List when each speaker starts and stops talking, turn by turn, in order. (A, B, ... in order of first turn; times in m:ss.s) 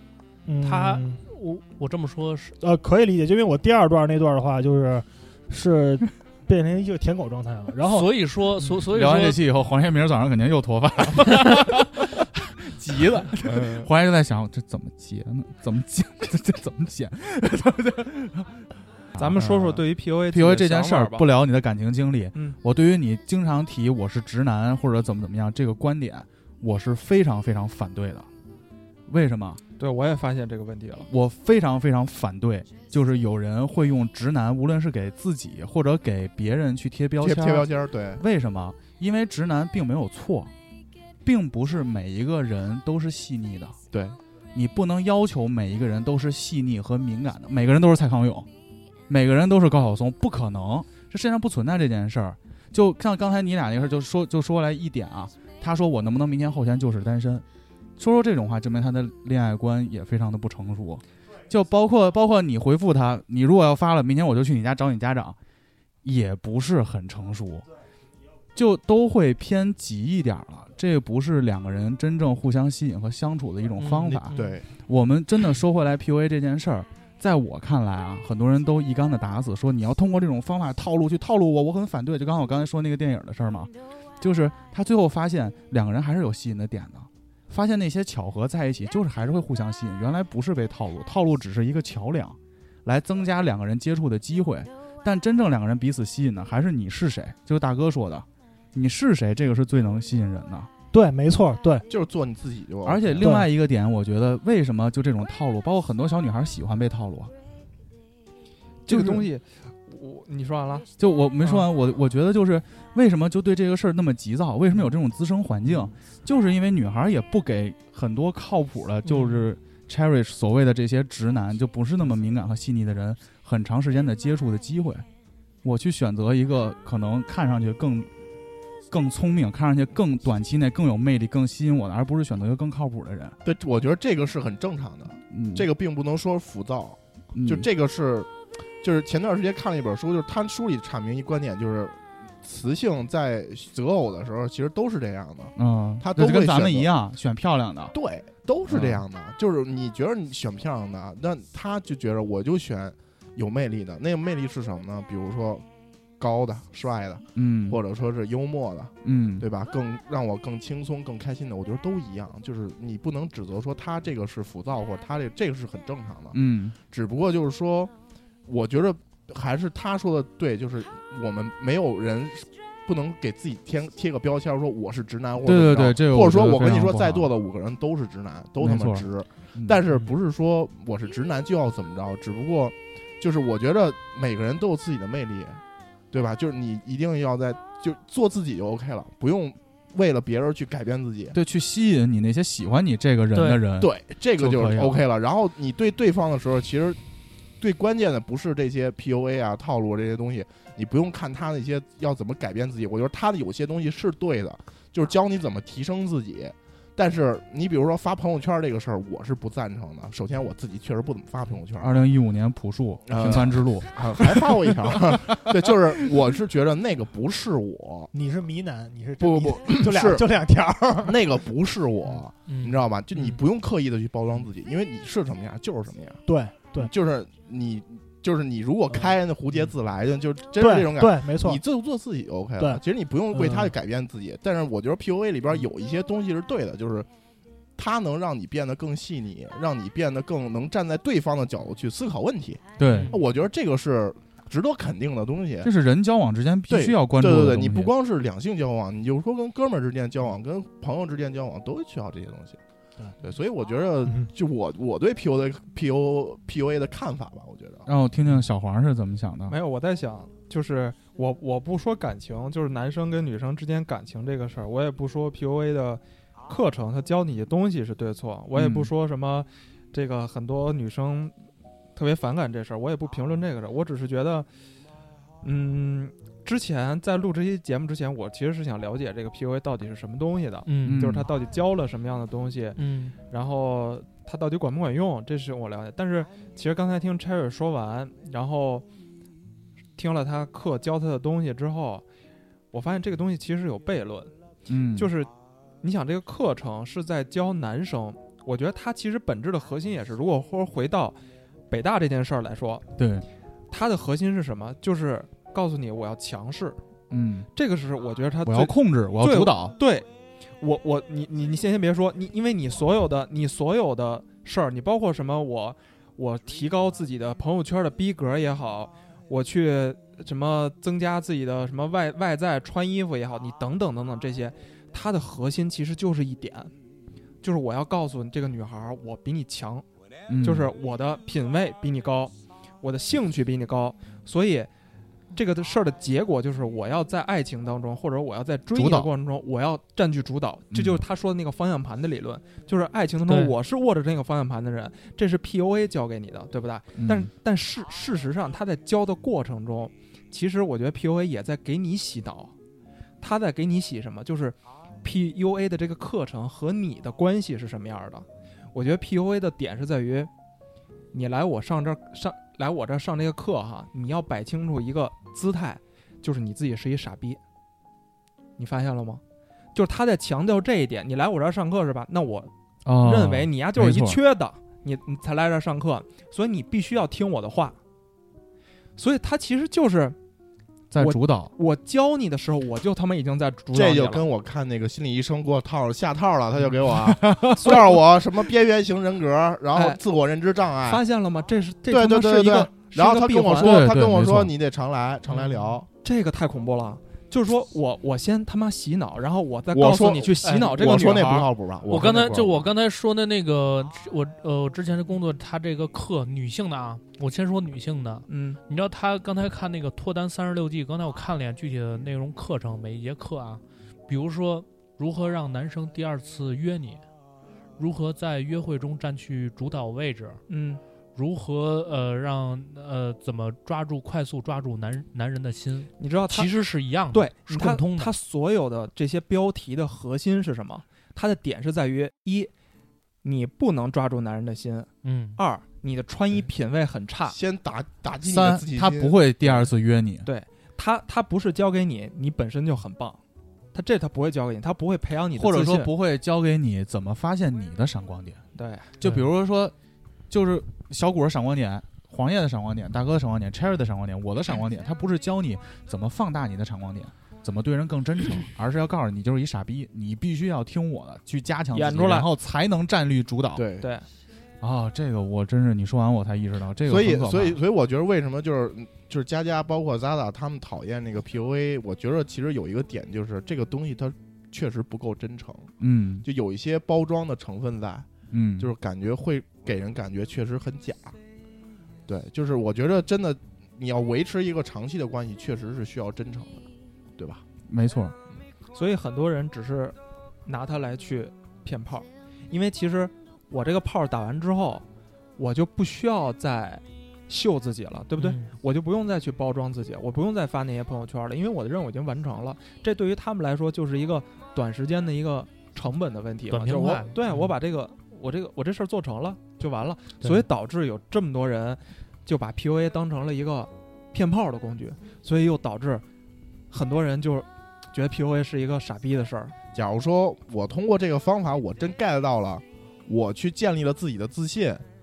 0:00.4-0:01.2 A
0:00.6-0:02.6 B
0:02.6-0:08.1 A
0:07.9-0:09.4 B
0:08.9-0:12.0 C
0:12.6-0:18.6 C
0:19.1-0:28.3 C
0:19.2-0:21.3 D
0:22.3-0:22.6 D
0:29.1-0:29.6 C
0:29.8-0:31.1 D
0:31.1-0:40.5 C
0:37.2-0:38.2 E
0:41.2-0:43.8 C
0:43.9-0:44.2 E
0:44.5-0:48.5 C
0:49.1-0:57.4 C
0:58.0-1:05.4 C
1:06.0-1:07.6 C
1:08.5-1:40.7 C
1:13.8-1:14.5 B
1:14.3-1:14.6 E
1:40.9-1:41.9 A
1:41.9-1:43.3 E
1:42.8-1:47.3 C
1:43.2-1:43.5 A
1:48.8-1:50.9 D
1:48.9-1:49.2 C
1:51.0-2:05.0 C
2:05.6-2:08.1 C
2:08.9-2:13.4 C
2:13.4-2:26.9 E
2:15.3-2:15.7 C
2:17.3-2:17.6 C
2:25.6-2:27.9 C
2:27.9-2:35.6 E
2:28.7-2:29.0 C
2:36.2-2:46.4 E
2:37.3-2:37.8 C
2:39.0-2:39.4 C
2:46.3-2:46.8 C
2:46.9-2:47.9 E
2:48.5-3:11.4 E
2:55.4-2:57.3 C
2:58.6-3:00.0 C
3:11.3-3:15.0 C
3:13.3-3:13.6 B
3:13.8-3:17.0 E
3:17.6-3:32.0 E
3:31.8-3:35.2 C
3:33.1-3:38.1 E
3:38.1-3:41.2 A
3:39.2-3:40.2 E
3:41.0-3:46.2 E
3:42.5-3:42.8 B
3:46.2-3:46.9 A
3:46.8-3:57.1 E
3:50.6-3:51.6 A
3:52.6-3:53.7 A
3:57.8-4:05.7 E
4:02.8-4:03.2 C
4:02.8-4:03.2 B
4:05.6-4:07.9 C
4:06.7-4:12.6 E
4:13.2-4:17.9 E
4:17.8-4:19.6 C
4:19.5-4:31.4 D
4:28.5-4:28.9 C
4:31.9-4:34.5 D
4:35.4-4:48.8 D
4:40.6-4:41.0 B
4:40.8-4:41.3 C
4:42.8-4:43.2 B
4:50.0-4:52.0 D
4:52.7-4:54.3 D
4:54.7-4:55.1 C
4:54.9-4:55.3 D
4:55.8-5:02.8 D
5:03.0-5:03.2 C
5:03.7-5:06.8 D
5:07.1-5:07.5 C
5:07.5-5:10.1 D
5:08.4-5:09.7 C
5:10.6-5:26.7 D
5:27.4-5:29.8 D
5:30.3-5:30.7 C
5:30.4-5:34.7 D
5:35.3-5:52.5 D
5:38.7-5:39.1 C
5:40.7-5:41.0 C
5:43.2-5:43.5 B
5:47.0-5:47.3 C
5:53.2-6:00.3 D
6:01.1-6:07.4 D
6:08.6-6:09.2 D
6:09.7-6:17.8 D
6:12.8-6:14.2 C
6:19.0-6:20.2 D
6:20.9-6:21.5 C
6:21.0-6:24.2 D
6:23.7-6:31.0 E
6:27.0-6:27.7 C
6:27.6-6:27.8 D
6:29.7-6:30.0 D
6:30.8-6:33.8 D
6:31.9-6:35.9 E
6:33.6-6:34.5 C
6:35.3-6:41.5 D
6:39.7-6:42.7 E
6:40.4-6:40.8 B
6:41.9-6:57.0 B
6:48.3-6:48.6 D
6:57.8-7:00.4 B
7:00.5-7:00.8 D
7:01.1-7:08.1 B
7:06.0-7:12.5 D
7:13.2-7:17.4 D
7:15.0-7:15.4 B
7:17.3-7:19.7 E
7:18.2-7:20.3 C
7:20.2-7:23.2 D
7:23.7-7:25.9 D
7:25.3-7:28.4 C
7:28.6-7:28.9 D
7:29.0-7:29.7 C
7:30.3-7:43.6 C
7:41.7-7:42.3 D
7:43.5-7:43.9 E
7:43.8-7:44.1 D
7:44.6-7:47.6 C
7:46.8-7:55.7 E
7:55.8-7:56.2 C
7:56.2-7:58.1 E
7:58.3-7:58.7 C
7:58.6-8:01.2 E
8:02.1-8:06.6 E
8:07.2-8:07.4 E
8:07.7-8:08.2 C
8:08.7-8:14.8 D
8:15.4-8:36.0 D
8:18.2-8:18.5 B
8:26.5-8:27.5 B
8:36.7-8:39.5 D
8:39.7-8:44.8 E